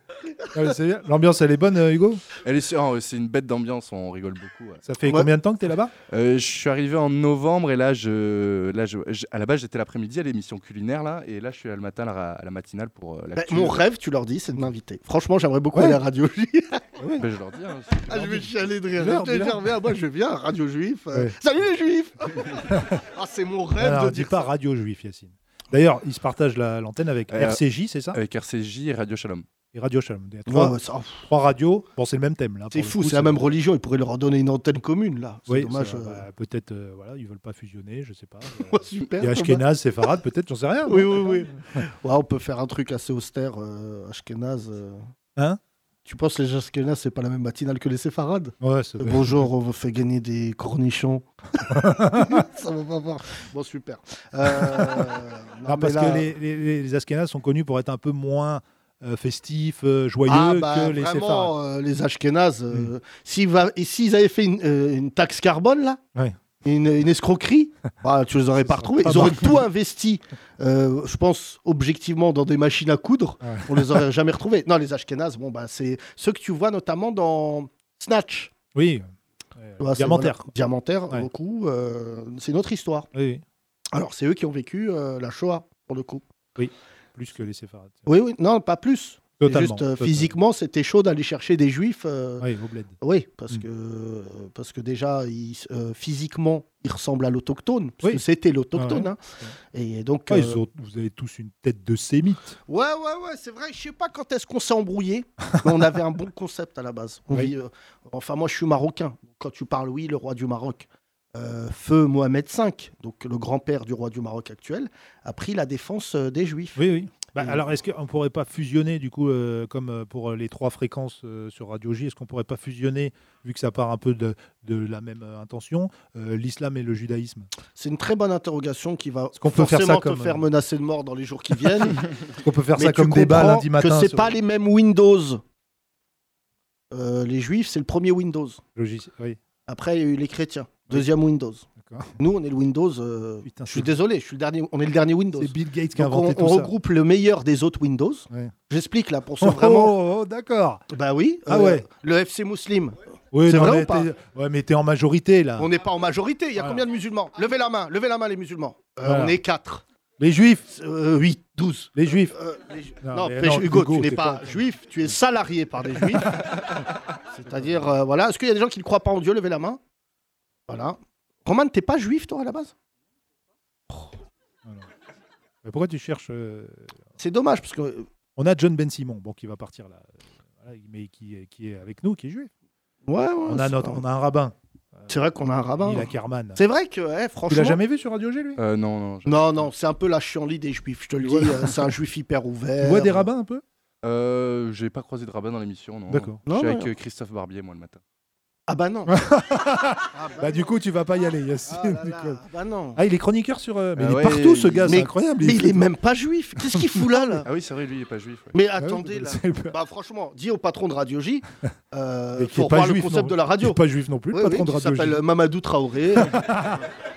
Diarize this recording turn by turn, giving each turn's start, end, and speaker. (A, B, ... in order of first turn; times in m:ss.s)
0:00.5-0:02.2 A
0:02.4-0:04.8 B
0:04.8-0:05.9 A
0:06.1-0:13.8 B
0:13.3-0:16.8 C
0:15.7-0:16.0 A
0:17.0-0:17.3 A
0:17.2-0:18.6 B
0:18.1-0:24.5 C
0:19.0-0:19.6 A
0:23.8-0:28.2 A
0:27.3-0:27.6 B
0:28.1-0:29.4 B
0:29.7-0:33.5 A
0:30.5-0:31.3 C
0:32.7-0:36.2 C
0:35.5-0:41.8 A
0:38.7-0:39.6 C
0:40.9-0:45.0 C
0:46.0-0:56.3 C
0:48.6-0:49.5 A
0:51.7-0:52.4 A
0:54.5-0:55.1 A
0:55.6-1:01.5 A
1:00.3-1:06.0 C
1:06.6-1:18.5 C
1:08.6-1:09.6 A
1:13.4-1:14.0 A
1:18.7-1:20.5 A
1:19.8-1:23.1 C
1:23.1-1:23.4 A
1:23.9-1:26.2 C
1:26.6-1:28.1 A
1:28.1-1:32.4 C
1:29.4-1:30.4 A
1:32.4-1:33.0 A
1:33.0-1:39.2 C
1:38.7-1:39.5 A
1:39.7-1:40.6 C
1:40.3-1:42.6 A
1:42.7-1:56.8 C
1:56.8-2:07.5 A
1:57.4-1:57.6 C
2:07.8-2:12.0 C
2:09.4-2:10.5 A
2:12.4-2:14.3 A
2:12.7-2:15.4 C
2:16.9-2:18.6 C
2:18.8-2:19.4 A
2:19.7-2:21.6 C
2:21.8-2:22.1 A
2:22.2-2:30.0 C
2:23.4-2:24.0 A
2:25.4-2:26.7 A
2:29.4-2:30.8 A
2:30.9-2:34.1 C
2:31.5-2:31.8 A
2:33.3-2:35.7 A
2:35.6-2:39.8 C
2:39.0-2:39.4 A
2:40.2-2:40.6 A
2:40.7-2:46.5 C
2:41.9-2:42.3 A
2:43.0-2:44.6 A
2:46.2-2:46.5 A
2:47.3-2:49.8 C
2:47.5-2:47.8 A
2:50.7-2:52.7 C
2:55.6-2:57.0 A
2:57.2-2:58.1 C
2:58.4-3:02.5 A
3:03.0-3:04.0 C
3:03.5-3:05.1 A
3:05.1-3:07.8 C
3:05.8-3:06.6 A
3:07.5-3:08.6 A
3:08.6-3:09.7 B
3:09.2-3:13.3 C
3:11.2-3:11.9 A
3:12.8-3:13.6 A
3:14.0-3:18.0 B
3:16.1-3:16.4 A
3:16.5-3:16.9 C
3:18.7-3:19.2 C
3:19.1-3:22.4 A
3:20.1-3:20.7 C
3:21.7-3:23.0 C
3:22.9-3:25.9 A
3:24.0-3:25.0 B
3:24.9-3:27.4 C
3:26.6-3:27.4 A
3:27.4-3:28.5 B
3:28.5-3:33.8 C
3:28.8-3:29.8 A
3:32.4-3:35.2 A
3:34.3-3:36.8 C
3:36.1-3:36.8 A